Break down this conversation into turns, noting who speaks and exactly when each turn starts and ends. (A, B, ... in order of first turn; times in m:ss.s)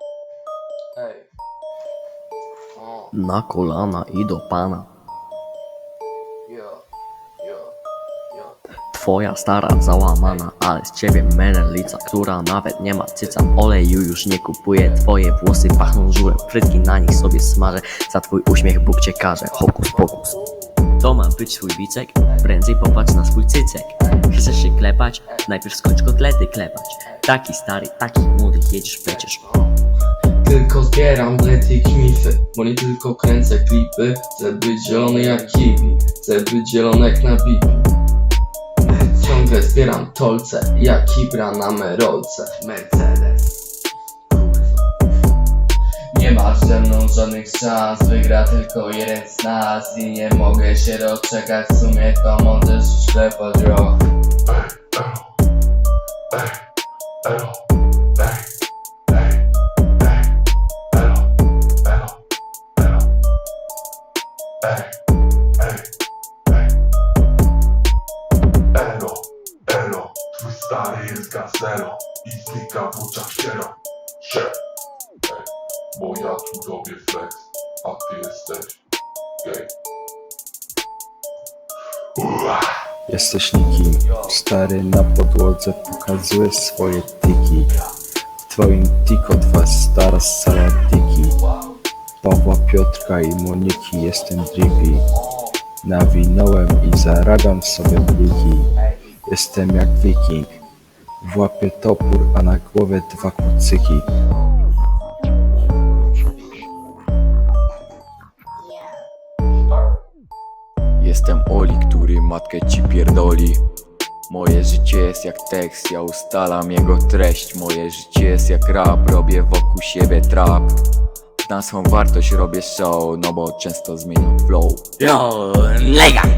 0:01.0-0:01.3 A
0:02.8-0:03.1 A
0:03.2-0:04.9 B
0:06.5-0:06.8 A
0:07.4-0:07.7 A
0:08.3-0:08.6 A
0:08.9-0:20.2 B
0:10.2-0:10.5 A
0:15.8-0:16.5 A
0:19.5-0:20.3 A
0:21.0-0:29.4 B
0:29.1-0:29.7 A
0:30.4-0:37.9 A
0:38.8-0:43.7 A
0:44.3-0:44.8 A
0:46.1-0:54.0 A
0:54.5-0:55.3 C
0:56.3-0:56.6 C
0:57.2-0:57.6 C
0:58.2-0:58.5 C
0:59.1-0:59.4 C
1:00.0-1:00.3 C
1:00.9-1:01.3 C
1:01.8-1:02.2 C
1:02.8-1:03.1 C
1:04.6-1:05.0 C
1:05.6-1:05.9 C
1:06.5-1:06.8 C
1:08.7-1:14.6 C
1:15.3-1:18.8 C
1:19.4-1:19.7 C
1:22.2-1:22.7 C
1:23.1-1:27.7 D
1:24.0-1:24.3 A
1:28.4-1:31.4 D
1:31.4-1:31.8 A
1:32.2-1:35.1 D
1:35.1-1:35.6 A
1:35.8-1:38.7 D
1:39.3-1:40.5 D
1:41.2-1:44.1 D
1:51.0-1:53.6 E
1:54.3-2:00.8 E
2:01.5-2:05.0 E